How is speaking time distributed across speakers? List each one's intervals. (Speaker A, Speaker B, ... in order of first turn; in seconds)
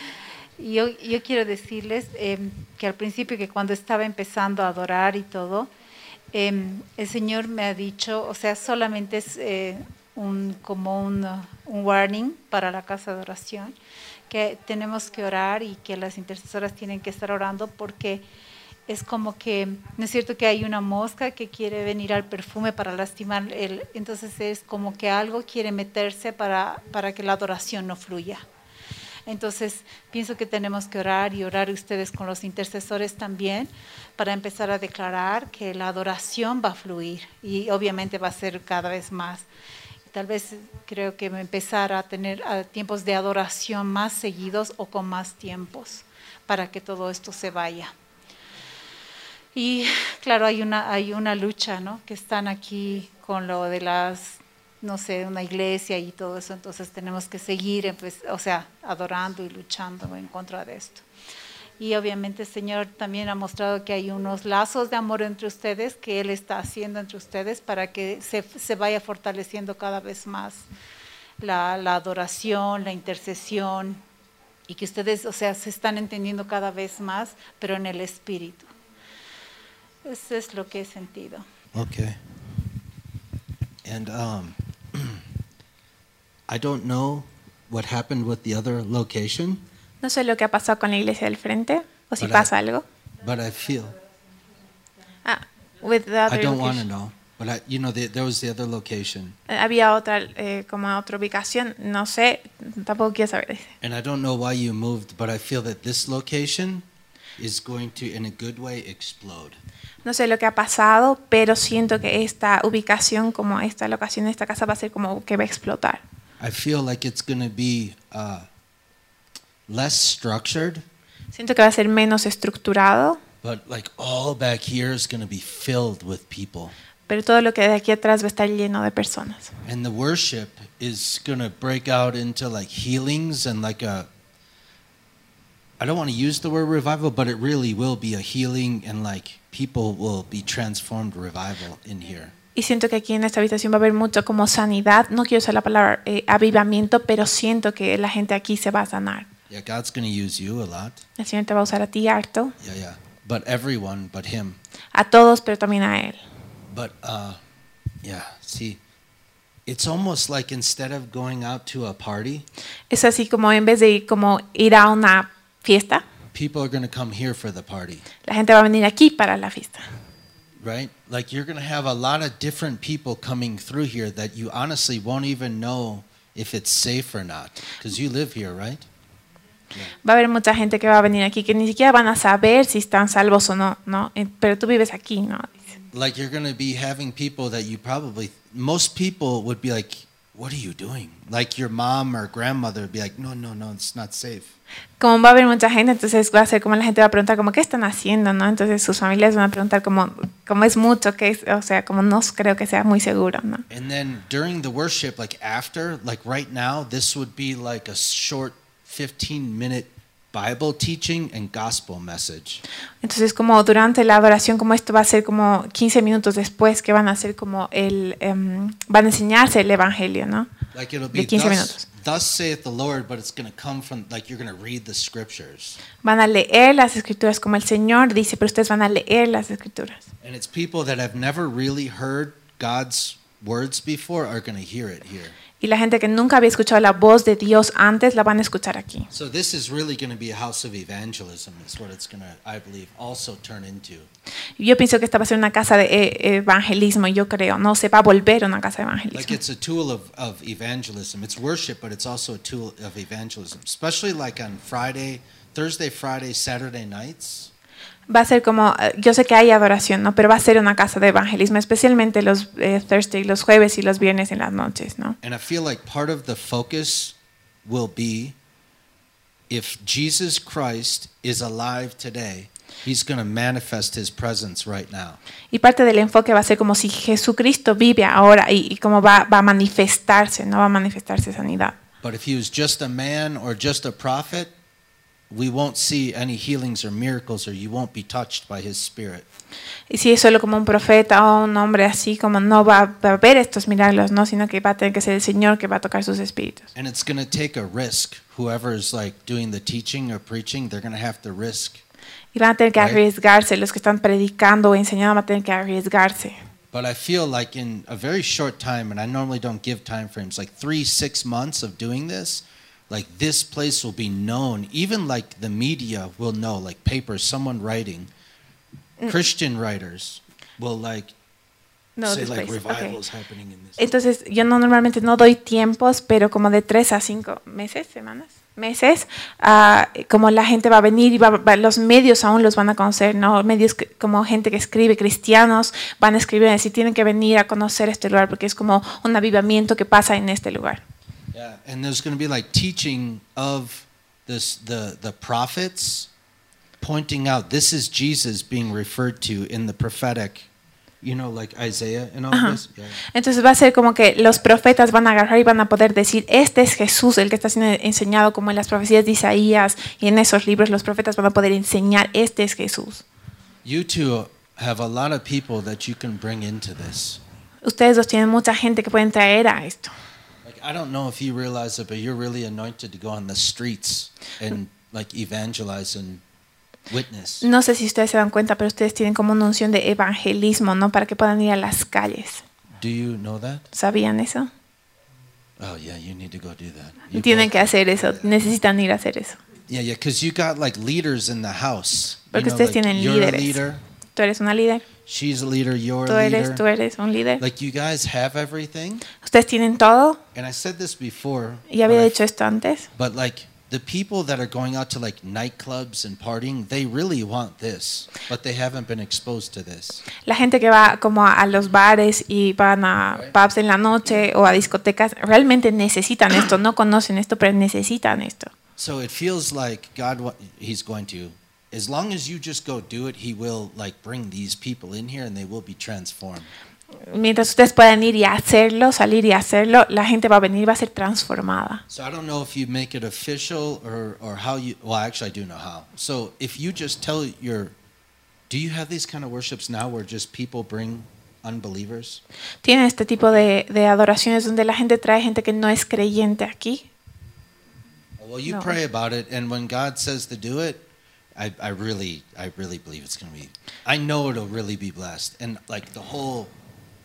Speaker A: 0.6-5.7, 6.3-13.7, 14.3-18.2, 18.9-28.4, 29.3-39.5, 40.1-47.9, 49.5-61.0, 61.8-70.6, 71.4-74.0, 74.7-78.7, 80.0-81.4
Speaker B: 81.7-82.2, 83.8-85.2, 86.5-89.6, 92.2-92.5, 93.2-94.0, 96.3-99.4, 103.8-106.8, 107.4-109.6, 116.4-118.5, 119.7-120.8, 123.4-126.7, 129.6-134.1, 135.8-142.3, 149.5-151.0, 152.6-154.6, 156.7-157.4, 158.0-158.8, 159.7-162.5, 166.3-168.1, 170.6-178.9, 185.9-194.6, 203.7-212.6, 220.7-225.8, 230.2-235.4, 239.1-244.1, 249.1-257.5, 265.2-268.4, 269.5-275.2, 282.0-284.5, 285.3-289.2, 296.7-301.8, 302.8-303.0, 306.7-318.1, 319.1-321.1, 322.0-323.9, 341.3-346.1, 346.8-350.5, 351.0-353.0, 354.2-354.9, 363.6-367.2, 370.4-376.2, 376.9-377.5, 382.8-383.7, 385.6-388.4, 389.7-393.8, 395.0-396.6, 397.4-399.1, 400.3-402.2, 402.9-410.0, 418.8-426.5, 431.9-437.7, 438.5-442.2, 448.2-456.5
Speaker C: 90.0-92.8, 95.2-96.8, 99.5-103.7, 110.0-116.0, 121.3-123.2, 127.1-129.5, 142.5-149.3, 151.2-152.6, 154.9-156.2, 162.9-166.0, 168.2-169.8, 180.0-185.7, 195.0-203.6, 213.0-220.5, 221.1-221.8, 226.0-230.1, 235.6-239.1, 244.6-249.4, 258.1-265.2, 275.5-281.8, 289.9-296.7, 302.3-306.4, 321.9-323.0, 323.8-340.8, 352.3-352.6, 353.1-363.0, 367.6-369.9, 377.4-382.4, 383.7-384.5, 387.1-389.4, 392.3-394.9, 396.1-397.4, 399.2-400.2, 401.7-402.9, 410.2-418.5, 427.1-431.8, 442.6-446.9, 448.5-448.8